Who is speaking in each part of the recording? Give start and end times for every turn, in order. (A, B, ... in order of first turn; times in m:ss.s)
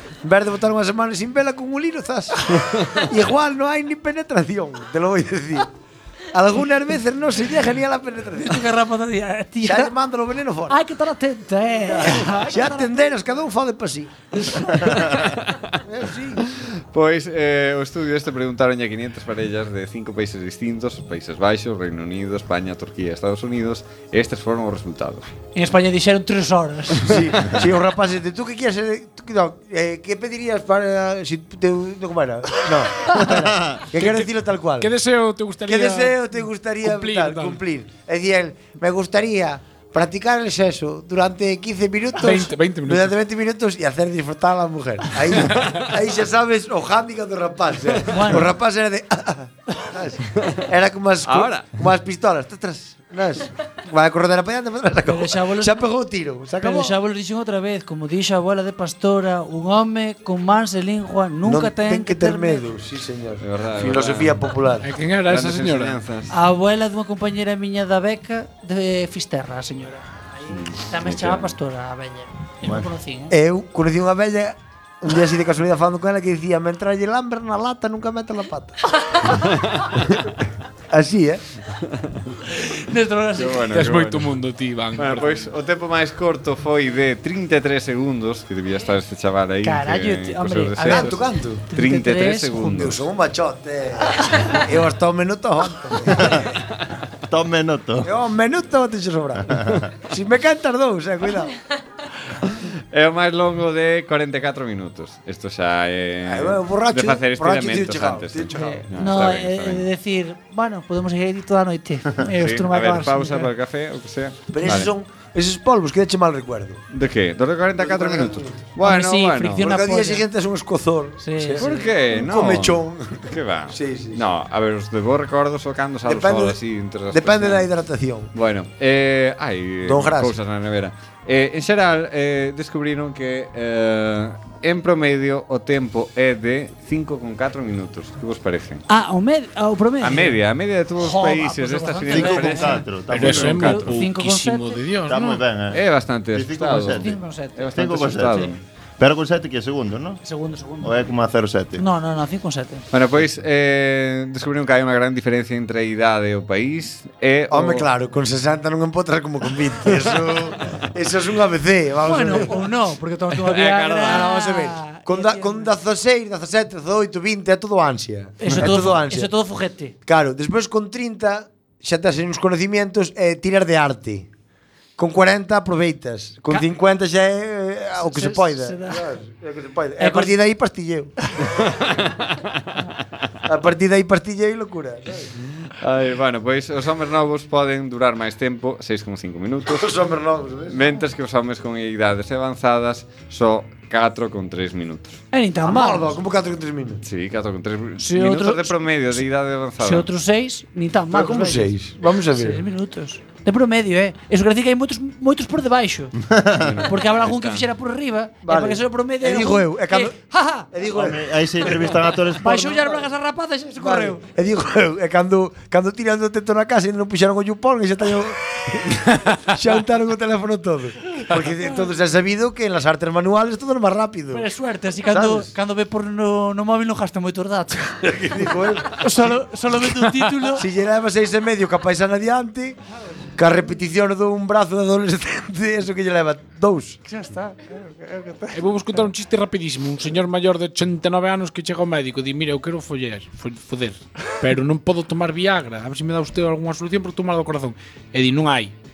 0:00.2-0:05.7 A
0:06.3-0:08.7 A
0:08.4-0:09.9 B
0:09.6-0:10.8 A
0:10.7-0:12.9 B
0:11.9-0:14.9 A
0:15.8-0:16.4 A
0:16.5-0:25.2 C
0:25.5-0:27.5 B
0:27.0-0:34.9 A
0:33.1-0:33.8 D
0:34.0-0:37.6 E
0:35.7-0:56.9 A
0:42.2-0:43.1 E
0:45.5-0:45.8 E
0:48.1-0:48.5 B
0:51.2-0:51.7 C
0:55.0-0:55.8 B
0:56.6-1:02.7 B
1:01.4-1:04.8 A
1:03.4-1:04.5 C
1:04.8-1:06.0 E
1:05.2-1:06.3 C
1:06.3-1:13.3 B
1:10.5-1:11.5 C
1:12.6-1:12.9 D
1:13.3-1:18.8 A
1:19.3-1:19.8 C
1:20.9-1:21.4 A
1:22.7-1:23.7 B
1:23.3-1:24.4 C
1:23.7-1:25.5 E
1:24.9-1:31.2 C
1:29.6-1:32.9 B
1:30.8-1:31.6 A
1:31.7-1:33.1 C
1:32.7-1:36.4 A
1:36.2-1:36.4 D
1:37.3-1:38.1 D
1:38.0-1:41.5 A
1:42.9-1:49.9 C
1:46.2-1:48.8 A
1:48.5-1:53.5 B
1:52.4-1:54.9 C
1:54.5-1:56.8 A
1:56.9-1:59.7 C
1:57.8-1:58.6 A
1:58.8-2:00.2 B
1:59.6-2:04.2 A
2:01.2-2:01.8 B
2:01.6-2:07.7 C
2:06.0-2:06.6 A
2:07.1-2:08.3 A
2:08.3-2:18.8 C
2:09.8-2:10.4 A
2:18.9-2:20.4 B
2:20.0-2:24.0 C
2:21.0-2:24.8 B
2:22.1-2:23.8 D
2:23.1-2:25.4 E
2:25.0-2:27.2 D
2:25.7-2:28.6 C
2:26.9-2:27.6 B
2:27.7-2:30.2 D
2:30.2-2:31.2 B
2:30.8-2:31.8 D
2:31.8-2:32.8 B
2:32.9-2:37.9 C
2:37.5-2:42.7 A
2:42.0-2:45.7 B
2:43.4-2:44.3 C
2:44.0-2:49.3 A
2:48.4-2:49.9 B
2:50.0-2:54.3 A
2:55.0-3:01.1 A
2:58.0-2:59.1 B
3:00.0-3:00.3 B
3:01.7-3:02.6 C
3:03.4-3:05.5 A
3:05.8-3:09.9 C
3:09.6-3:10.8 A
3:10.7-3:15.2 C
3:15.3-3:16.1 B
3:15.6-3:17.0 A
3:17.0-3:20.1 C
3:18.0-3:19.2 B
3:19.8-3:21.7 B
3:21.1-3:22.6 A
3:22.3-3:26.1 B
3:26.2-3:26.9 D
3:26.6-3:27.7 C
3:26.8-3:30.7 B
3:28.4-3:30.1 A
3:30.7-3:31.8 A
3:30.9-3:32.9 D
3:32.4-3:34.2 B
3:33.8-3:44.5 A
3:44.3-3:48.0 B
3:45.1-3:45.5 A
3:48.0-3:52.8 A
3:48.9-3:50.6 B
3:53.3-3:57.0 A
3:57.1-3:58.4 B
3:58.5-4:08.7 E